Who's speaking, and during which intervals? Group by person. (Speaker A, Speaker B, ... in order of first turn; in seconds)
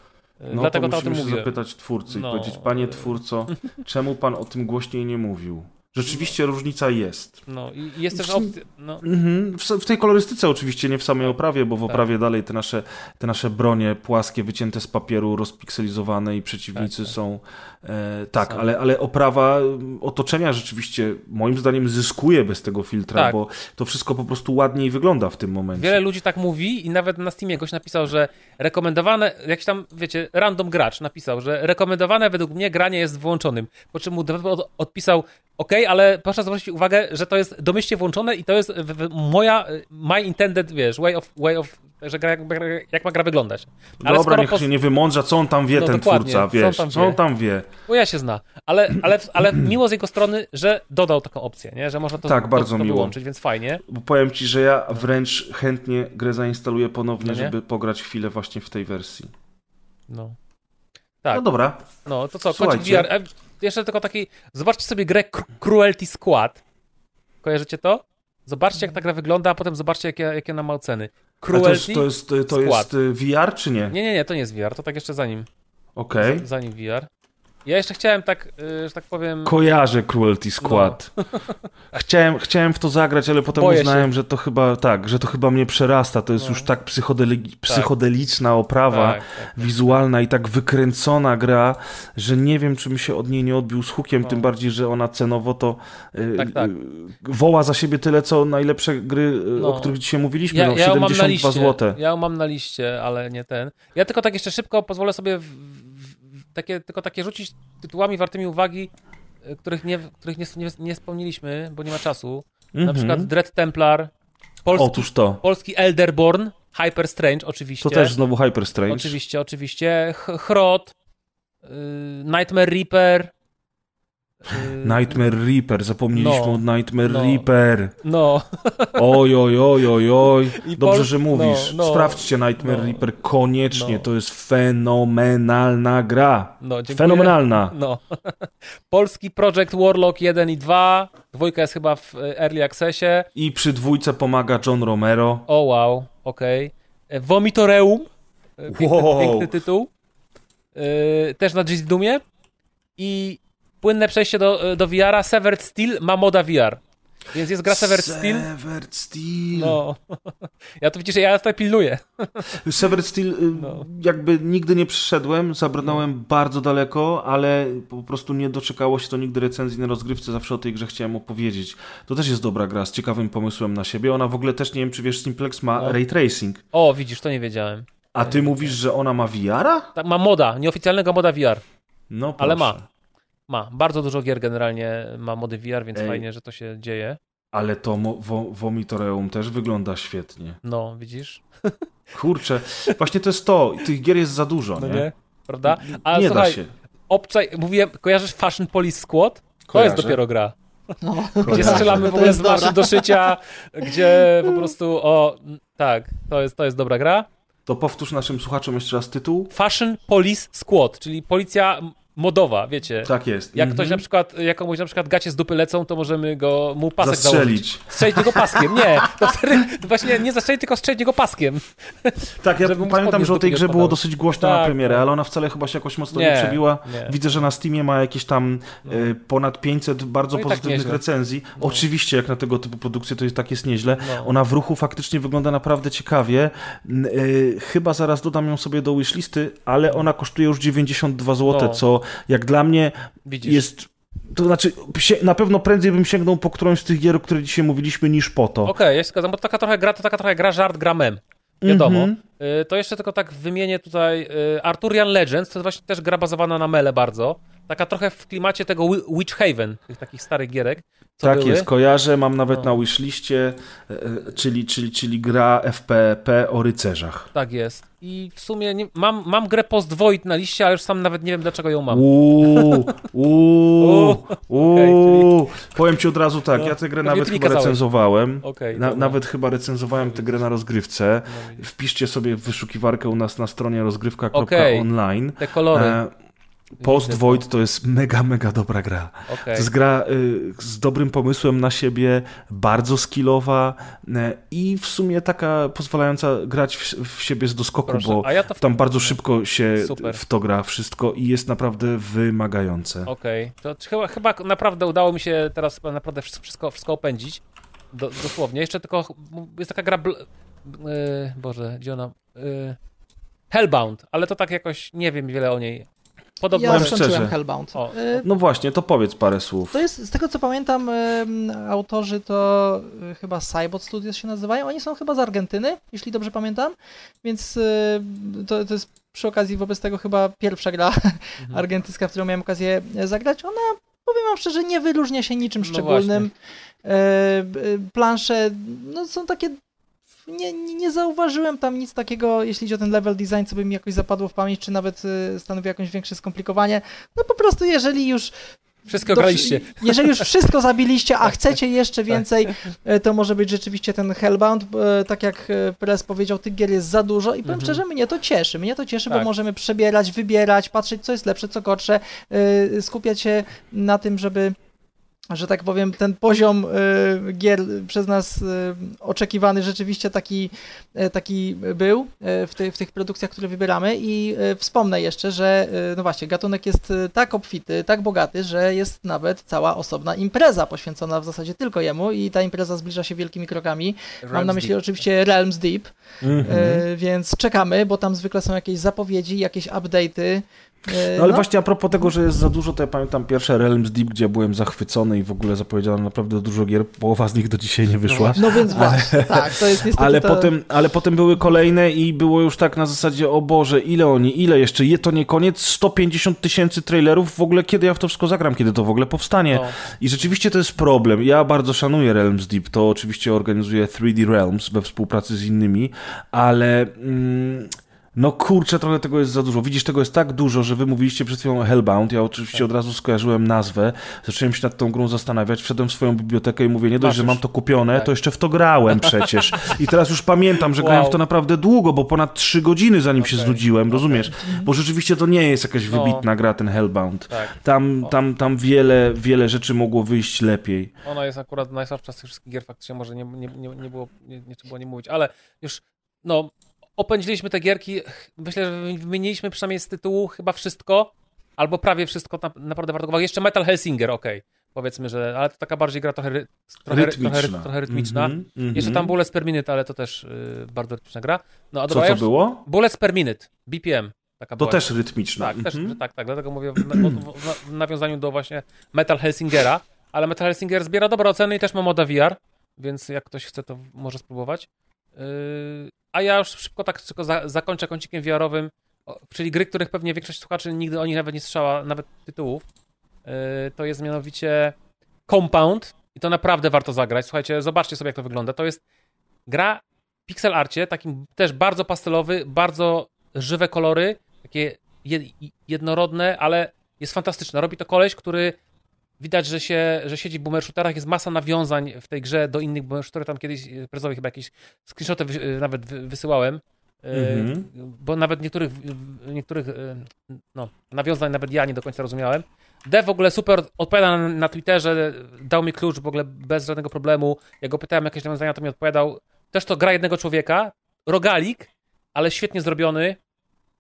Speaker A: 0.4-1.5, 2.1-3.2, 6.1-6.3, 7.5-9.1, 16.8-17.1, 25.8-44.7, 45.7-47.2, 47.9-53.8, 57.2-57.6, 60.1-60.4, 62.0-66.6, 67.4-72.9, 73.9-75.5, 76.2-77.1, 77.7-79.6, 80.6-81.5, 83.5-84.1, 86.4-86.7, 88.9-89.9, 96.4-96.7, 99.6-100.0, 100.5-108.9, 109.5-114.1, 114.6-118.2, 118.9-120.9, 121.6-123.3, 124.4-125.2, 126.1-127.5, 128.0-129.1, 130.6-133.1, 133.7-134.1, 136.6-143.3, 145.5-149.9, 150.8-152.2, 153.0-156.8, 157.3-158.5, 159.6-162.6, 163.6-163.9, 176.7-178.8, 180.0-181.6, 182.4-182.8, 183.5-187.2, 190.7-191.8, 194.8-200.5, 201.5-207.3, 209.5-225.0, 226.1-227.2, 230.3-231.0, 231.6-231.8, 234.0-234.3, 241.5-241.8, 243.3-243.7, 248.7-261.7, 262.5-262.7, 267.4-272.9, 273.8-275.4, 276.6-277.8, 278.4-279.2, 280.0-280.4, 281.3-281.6, 284.3-286.0, 286.8-287.4, 289.3-289.7, 297.9-299.2, 299.8-300.2, 303.1-312.8, 313.5-315.9, 316.4-318.2, 335.6-336.3, 348.9-350.2, 357.4-357.8, 384.3-384.9, 409.5-409.8, 427.0-427.4, 428.9-429.8, 430.8-431.2, 433.2-434.5, 435.9-436.3, 437.3-438.1, 441.1-464.8, 465.4-482.6, 483.2-484.8, 485.3-488.8, 489.5-498.5, 499.2-523.2
Speaker B: 0.5-7.4, 8.1-26.0, 44.0-47.7, 52.2-53.1, 53.9-59.3, 61.3-61.9, 62.5-63.1, 71.5-74.0, 76.0-76.5, 79.5-81.1, 81.9-102.0, 112.8-113.3, 114.7-115.4, 117.8-119.2, 124.8-128.0, 129.0-137.8, 143.3-145.5, 148.7-149.6, 157.7-159.8, 162.6-176.6, 178.1-179.9, 182.1-182.8, 185.9-186.2, 187.5-190.6, 192.1-195.1, 195.7-196.7, 199.7-200.2, 201.4-202.7, 207.7-209.5, 213.0-214.0, 217.0-219.2, 222.4-248.7, 251.6-252.2, 261.2-267.3, 271.9-286.1, 286.8-303.1, 316.7-317.3, 318.2-319.8, 386.2-386.9, 391.1-440.9, 456.9-459.1, 461.9-462.6, 464.6-466.0, 466.9-467.2, 507.1-507.7
Speaker C: 201.0-203.3, 203.9-204.5, 316.5-318.3, 319.7-336.3, 336.8-339.6, 340.3-348.3, 348.9-364.6, 365.3-385.9, 386.4-391.5, 398.4-400.5